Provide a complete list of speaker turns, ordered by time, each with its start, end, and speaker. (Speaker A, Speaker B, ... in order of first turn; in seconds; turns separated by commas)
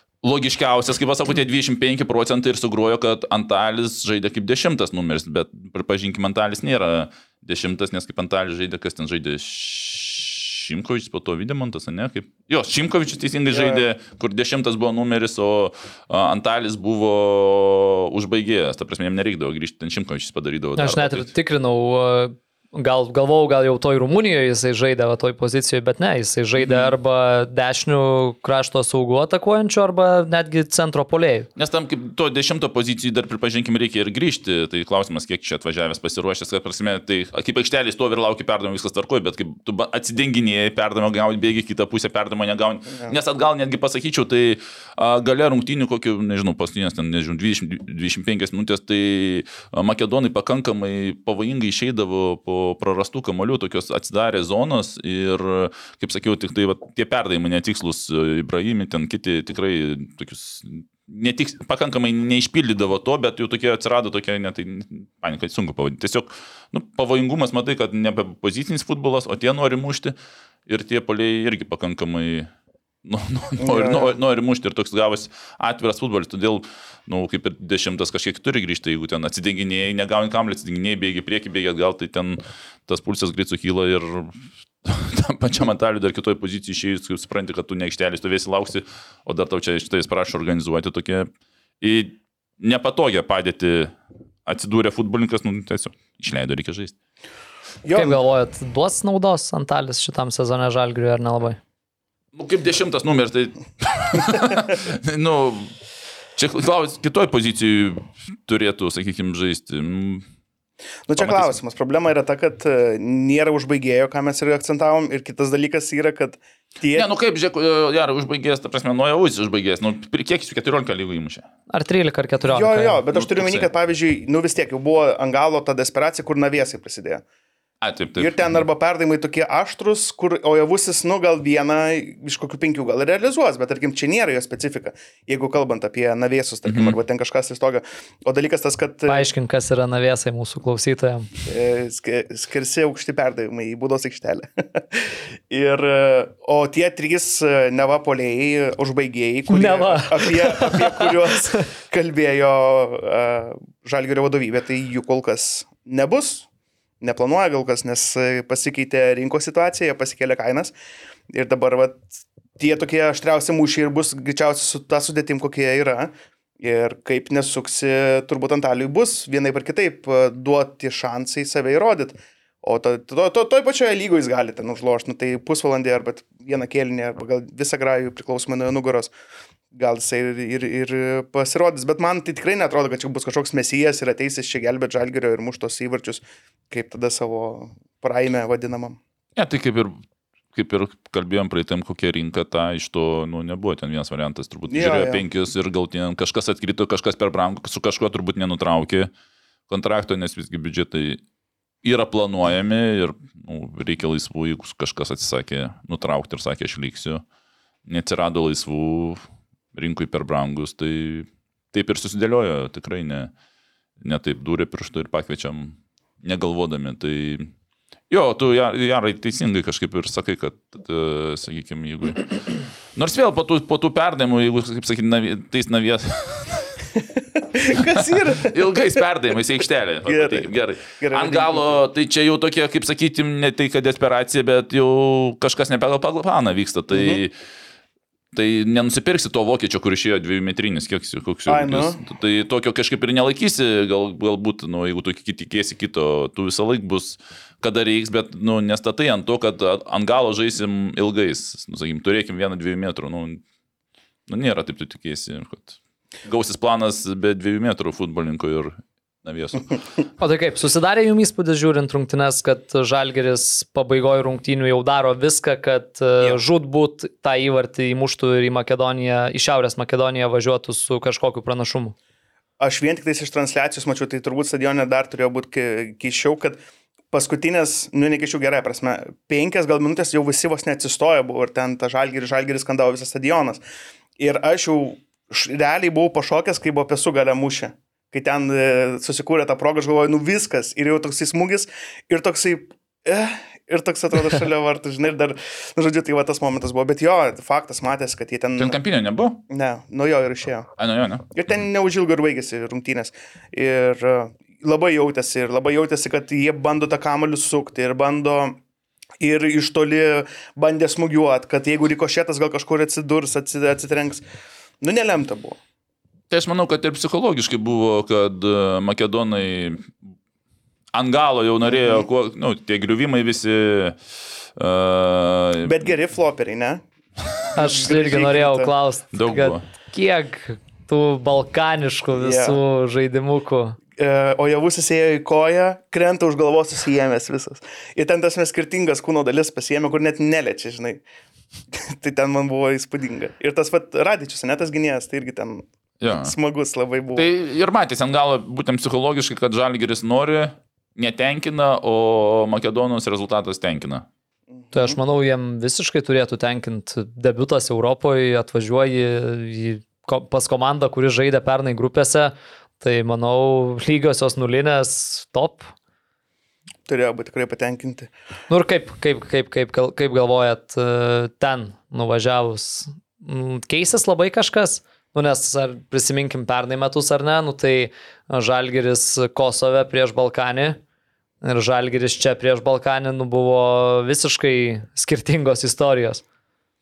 Speaker A: 0.2-21.3, Speaker B: 13.5-13.8, Speaker C: 20.8-31.5, Speaker A: 26.6-26.9, Speaker A: 31.6-70.1, Speaker A: 70.7-72.5, Speaker A: 73.0-91.3, Speaker B: 73.6-74.1, Speaker A: 91.8-93.9, Speaker A: 94.5-96.9, Speaker B: 97.8-98.2, Speaker C: 97.9-101.6, Speaker A: 102.3-105.7, Speaker A: 106.4-110.2, Speaker B: 111.1-117.1, Speaker A: 111.2-111.5, Speaker A: 116.9-121.5, Speaker C: 121.7-123.0, Speaker B: 122.5-127.2, Speaker A: 123.1-123.7, Speaker A: 127.8-128.6, Speaker B: 128.2-139.3, Speaker A: 136.6-137.0, Speaker C: 139.1-141.3, Speaker B: 141.4-156.5, Speaker C: 149.5-151.6, Speaker B: 157.0-160.7, Speaker B: 161.3-179.1, Speaker B: 179.7-189.0, Speaker A: 189.3-190.0, Speaker A: 190.5-199.1, Speaker B: 194.7-195.2, Speaker A: 199.7-201.2, Speaker A: 201.8-207.2, Speaker A: 207.8-209.2, Speaker A: 209.7-213.3, Speaker A: 214.0-217.5, Speaker A: 218.1-226.7, Speaker B: 227.2-228.6, Speaker A: 227.9-237.3, Speaker B: 230.1-231.8, Speaker B: 236.9-237.2, Speaker A: 238.3-253.4, Speaker B: 241.5-242.0, Speaker A: 254.3-259.8, Speaker C: 260.2-271.9, Speaker B: 272.6-276.6, Speaker B: 277.1-283.6, Speaker B: 284.2-298.8, Speaker A: 298.6-299.4, Speaker B: 299.5-300.7, Speaker A: 300.8-301.2, Speaker B: 301.3-308.6, Speaker B: 309.2-314.2, Speaker B: 314.8-315.6, Speaker A: 316.3-319.9, Speaker A: 320.9-324.0, Speaker B: 321.6-322.1, Speaker A: 324.6-325.9, Speaker B: 325.6-326.8, Speaker C: 327.5-333.8, Speaker B: 327.6-328.7, Speaker A: 329.1-329.6, Speaker B: 332.1-332.6, Speaker B: 333.9-341.0, Speaker B: 341.7-345.7, Speaker A: 346.0-346.3, Speaker B: 346.2-347.2, Speaker A: 347.1-354.0, Speaker B: 354.6-355.0, Speaker C: 354.7-365.7, Speaker B: 366.9-368.1, Speaker C: 368.5-380.8, Speaker C: 381.4-386.2